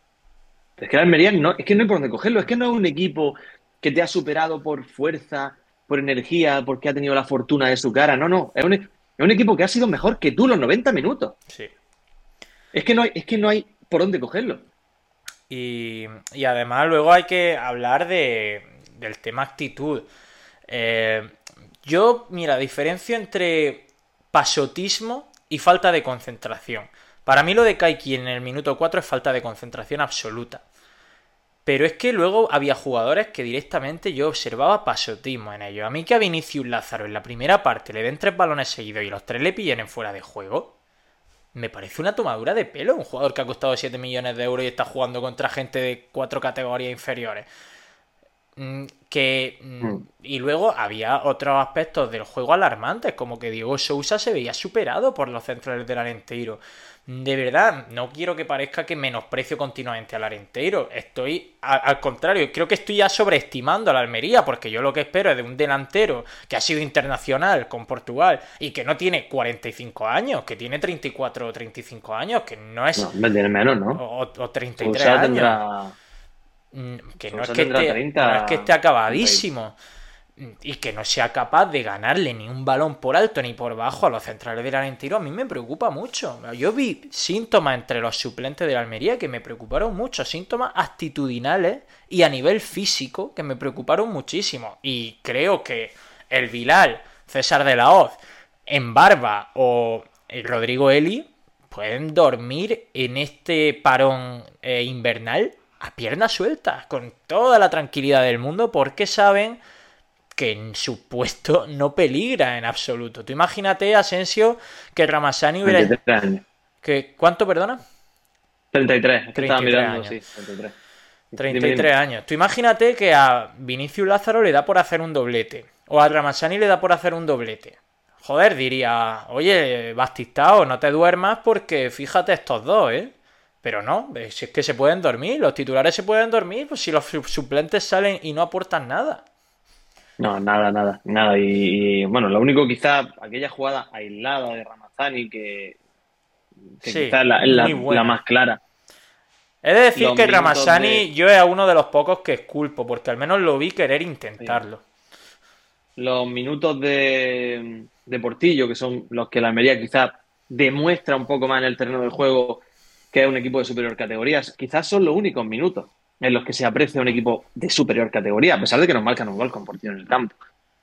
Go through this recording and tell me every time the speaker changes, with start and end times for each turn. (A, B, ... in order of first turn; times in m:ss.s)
0:00.8-0:11.4 A
0:12.7-0:14.6 A
0:15.5-0:20.1 B
0:20.7-0:30.6 B
0:31.7-0:40.7 B
0:41.6-0:47.5 B
0:48.6-1:13.1 B
1:13.0-1:14.0 A
1:14.0-1:15.6 B
1:14.8-1:16.0 A
1:16.7-1:19.8 B
1:17.3-1:19.4 A
1:20.4-1:49.6 B
1:50.3-1:55.9 B
1:55.6-1:56.4 A
1:56.8-1:57.8 B
1:58.7-2:00.7 A
1:59.4-2:00.2 B
2:01.3-2:01.9 A
2:01.4-2:19.2 B
2:20.2-2:25.8 A
2:26.8-2:28.6 A
2:26.8-2:28.2 B
2:29.6-2:34.8 B
2:29.9-2:31.1 A
2:36.0-2:50.4 A